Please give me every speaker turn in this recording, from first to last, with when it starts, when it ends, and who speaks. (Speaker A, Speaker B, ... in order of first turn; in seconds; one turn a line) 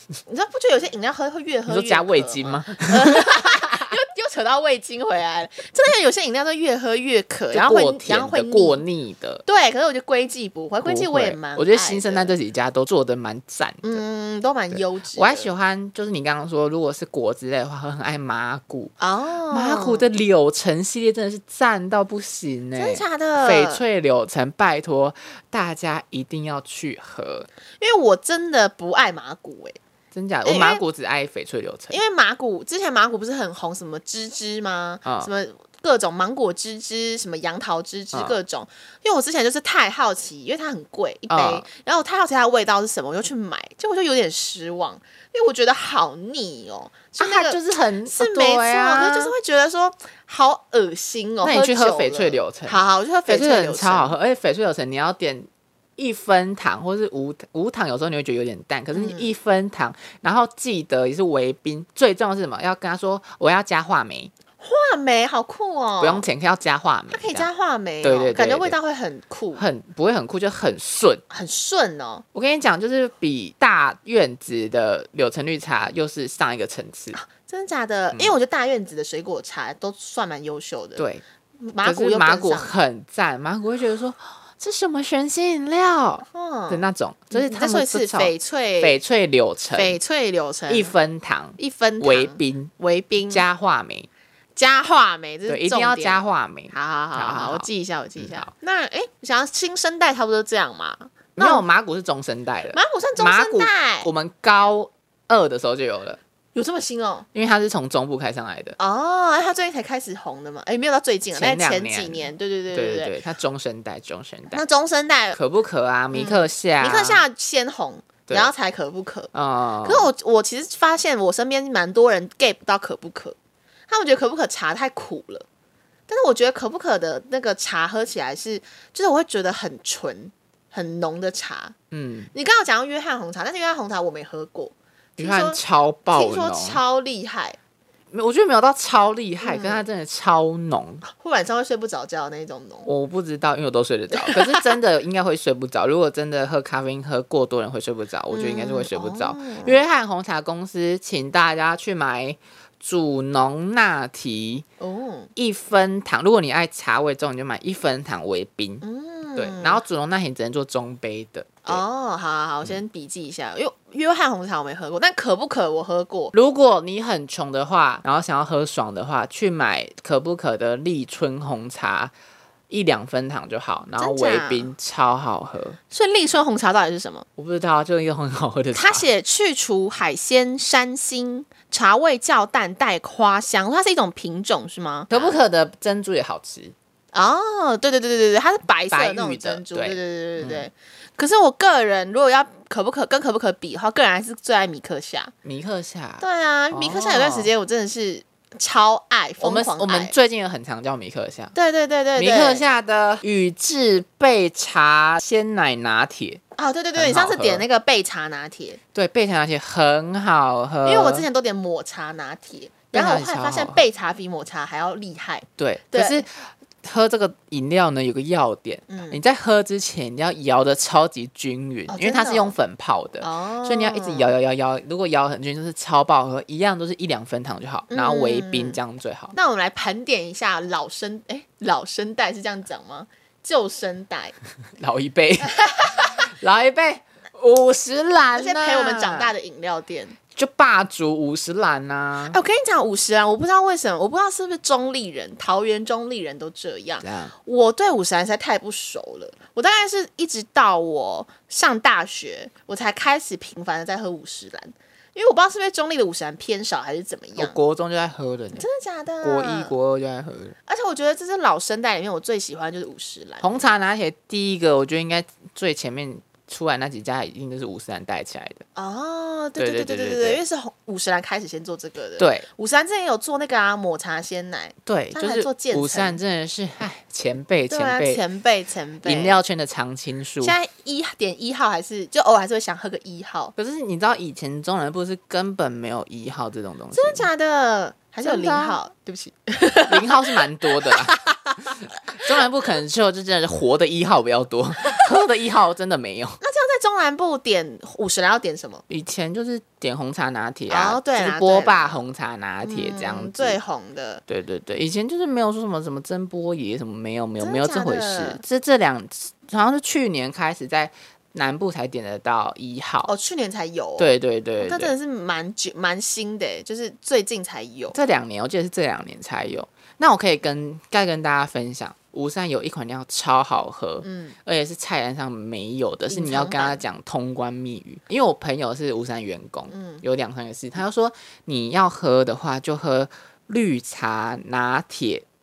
Speaker A: 0.2-8.8
Speaker B: 1.7-4.0
Speaker B: 7.5-9.4
Speaker A: 9.4-12.3
Speaker B: 10.8-14.0
Speaker A: 13.8-15.5
Speaker B: 14.7-18.9
Speaker A: 19.0-20.1
Speaker B: 19.5-27.5
Speaker A: 22.7-23.8
Speaker A: 27.8-29.8
Speaker B: 30.1-32.0
Speaker A: 30.4-30.8
Speaker A: 31.9-54.1
Speaker B: 35.0-35.3
Speaker B: 38.1-38.4
Speaker B: 41.3-41.6
Speaker B: 47.2-49.3
Speaker B: 51.4-64.3
Speaker A: 58.9-59.3
Speaker A: 64.6-66.2
Speaker B: 66.0-67.5
Speaker A: 67.1-69.6
Speaker B: 68.0-68.8
Speaker B: 69.5-71.2
Speaker A: 71.3-72.2
Speaker B: 72.3-77.2
Speaker A: 77.1-81.1
Speaker B: 81.0-81.2
Speaker A: 81.6-82.7
Speaker B: 81.8-90.0
Speaker A: 86.3-89.0
Speaker A: 89.7-90.9
Speaker B: 90.7-92.7
Speaker A: 91.6-93.5
Speaker B: 93.3-94.1
Speaker A: 94.5-101.6
Speaker B: 95.5-98.5
Speaker B: 101.3-106.2
Speaker A: 102.7-104.1
Speaker A: 106.5-107.3
Speaker B: 107.3-108.8
Speaker A: 108.8-113.1
Speaker B: 111.3-114.6
Speaker A: 114.5-115.4
Speaker B: 115.3-117.2
Speaker A: 116.1-119.3
Speaker B: 119.3-120.1
Speaker A: 119.8-123.3
Speaker A: 123.9-125.4
Speaker A: 126.1-131.7
Speaker B: 131.9-132.3
Speaker A: 132.3-135.6
Speaker B: 135.2-136.8
Speaker A: 136.1-137.6
Speaker B: 138.1-141.0
Speaker A: 139.4-139.8
Speaker A: 141.1-142.9
Speaker B: 142.8-154.6
Speaker A: 144.1-144.8
Speaker A: 148.3-149.8
Speaker A: 154.8-155.3
Speaker B: 155.3-158.8
Speaker A: 158.8-159.8
Speaker B: 159.3-161.8
Speaker A: 161.6-166.3
Speaker B: 166.3-172.1
Speaker B: 172.7-175.8
Speaker A: 174.0-174.7
Speaker A: 175.9-177.2
Speaker B: 177.4-179.1
Speaker A: 178.7-185.4
Speaker B: 185.1-186.7
Speaker A: 187.1-195.3
Speaker B: 188.9-190.7
Speaker B: 195.4-197.5
Speaker A: 196.2-200.1
Speaker B: 199.4-201.5
Speaker A: 201.5-202.6
Speaker B: 202.2-206.4
Speaker A: 206.6-208.8
Speaker B: 206.9-207.6
Speaker B: 208.9-211.2
Speaker A: 210.8-216.2
Speaker B: 212.9-213.8
Speaker B: 215.6-229.3
Speaker A: 218.9-219.2
Speaker A: 221.9-222.6
Speaker A: 223.2-224.3
Speaker A: 227.9-228.8
Speaker A: 229.3-234.3
Speaker B: 234.8-235.6
Speaker A: 235.4-236.1
Speaker B: 236.4-239.3
Speaker A: 238.3-240.2
Speaker B: 240.3-242.4
Speaker A: 242.2-257.6
Speaker B: 247.0-247.3
Speaker B: 257.4-258.6
Speaker A: 258.5-259.7
Speaker B: 259.2-260.6
Speaker A: 260.7-263.6
Speaker B: 263.4-268.6
Speaker A: 268.7-276.2
Speaker B: 269.6-270.4
Speaker B: 272.2-272.5
Speaker B: 274.9-278.2
Speaker A: 277.7-279.4
Speaker B: 279.0-280.6
Speaker A: 280.4-283.5
Speaker B: 283.6-287.3
Speaker A: 286.9-290.1
Speaker B: 288.2-288.8
Speaker B: 289.9-291.1
Speaker A: 290.7-291.6
Speaker B: 291.8-296.4
Speaker A: 296.4-298.8
Speaker B: 298.9-303.6
Speaker A: 300.7-302.0
Speaker A: 302.6-304.2
Speaker B: 304.3-313.1
Speaker A: 307.4-308.4
Speaker A: 313.0-317.9
Speaker B: 314.0-314.9
Speaker B: 317.9-335.2
Speaker A: 324.0-324.4
Speaker A: 326.1-326.8
Speaker A: 329.7-330.0